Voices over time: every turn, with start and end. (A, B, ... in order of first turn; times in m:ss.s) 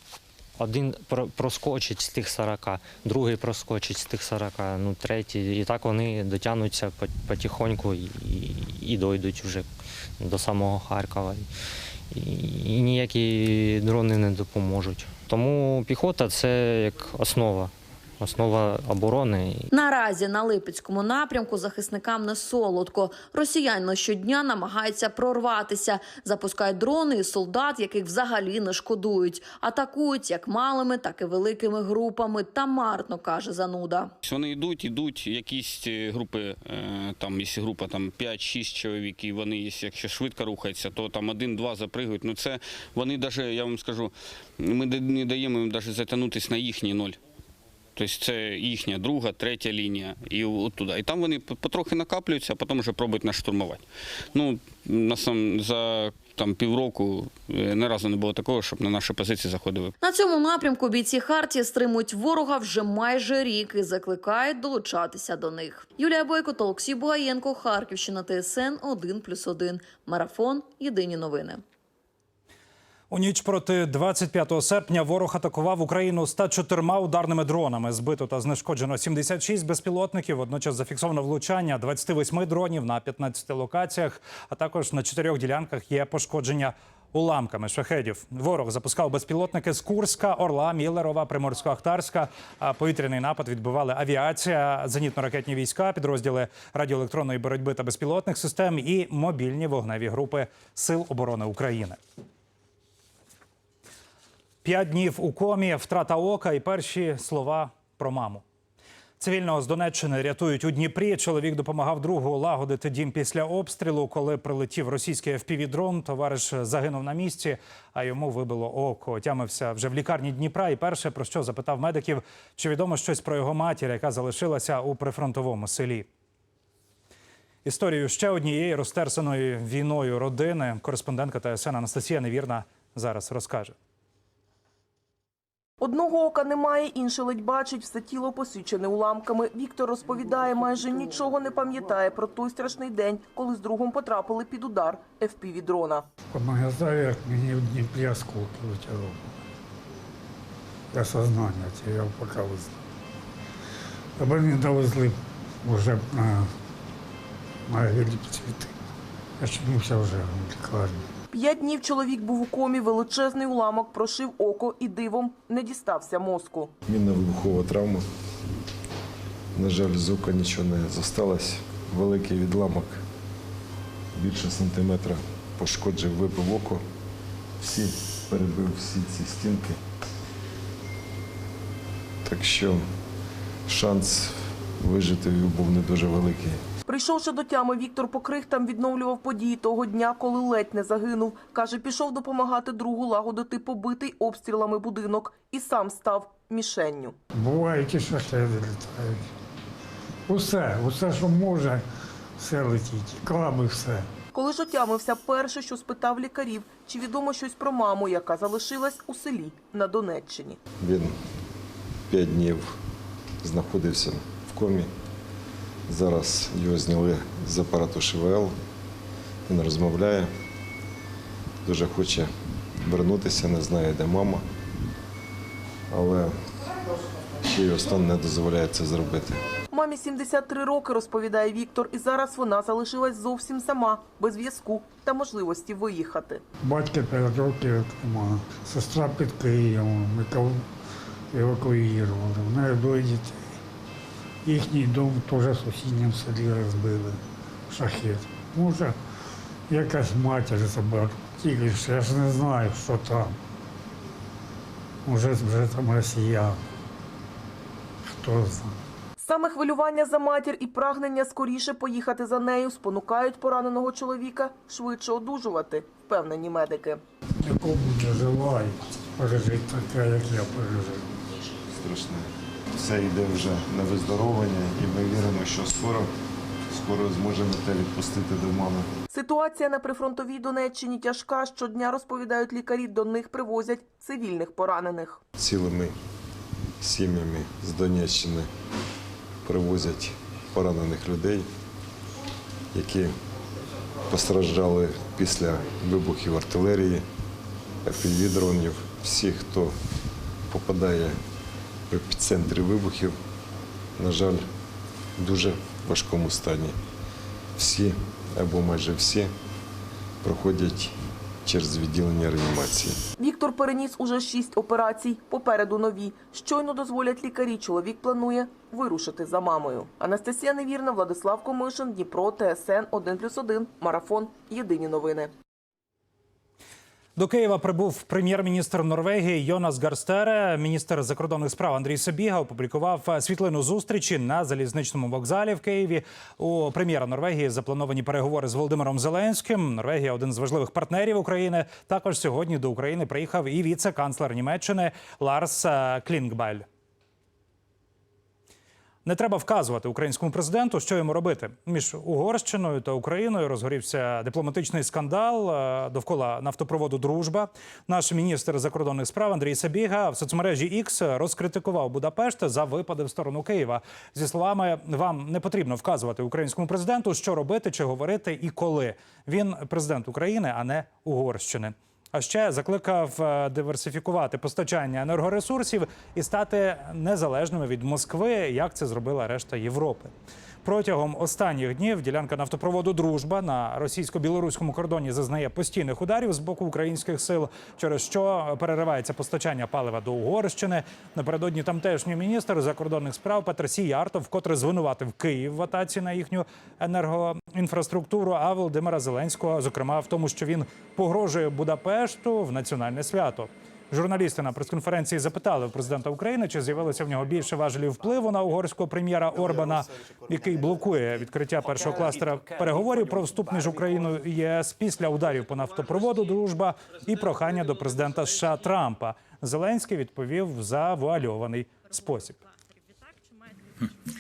0:00.6-0:09.7 A
0:10.2-0:11.5 A
0:12.1-0:19.7 A
0:19.7-0:34.1 B
0:34.2-0:47.2 C
0:48.0-0:59.9 C
1:00.0-1:11.6 B
1:13.1-1:42.0 D
1:44.6-1:48.4 D
1:49.2-2:06.1 D
2:07.6-2:13.8 D
2:15.8-2:26.1 E
2:26.3-2:29.5 F
2:30.9-2:32.8 F
2:34.2-2:36.5 F
2:37.7-2:38.7 F
2:39.4-2:41.0 F
2:41.3-2:46.7 E
2:46.9-2:48.1 G
2:49.5-2:53.0 G
2:54.1-2:56.8 G
2:57.6-2:59.8 G
3:02.2-3:02.9 G
3:03.7-3:06.6 G
3:06.9-3:17.2 E
3:17.3-3:19.2 F
3:20.3-3:21.8 F
3:22.4-3:24.1 F
3:24.3-3:30.6 E
3:30.8-3:31.2 G
3:32.1-3:32.8 G
3:33.4-3:34.9 G
3:35.9-3:38.6 G
3:39.5-3:40.3 G
3:41.6-3:44.5 G
3:45.9-3:46.4 G
3:47.4-3:49.4 G
3:49.7-3:56.4 E
3:56.6-4:00.7 F
4:01.3-4:03.6 F
4:04.4-4:09.0 F
4:09.7-4:13.4 F
4:15.1-4:16.6 F
4:18.1-4:18.8 F
4:19.2-4:27.0 E
4:27.4-4:31.1 F
4:31.7-4:36.1 G
4:36.7-4:38.9 G
4:39.1-4:45.2 E
4:45.4-4:46.0 G
4:46.8-4:48.5 G
4:49.4-4:51.5 G
4:52.7-4:53.1 G
4:54.1-4:57.1 G
4:57.8-4:59.8 G
5:00.5-5:01.2 G
5:01.9-5:03.2 G
5:04.0-5:04.5 G
5:05.2-5:06.8 G
5:07.6-5:09.3 G
5:10.2-5:13.0 G
5:13.2-5:25.3 E
5:27.2-5:46.7 D
5:49.0-6:20.1 D
6:20.6-7:02.4 D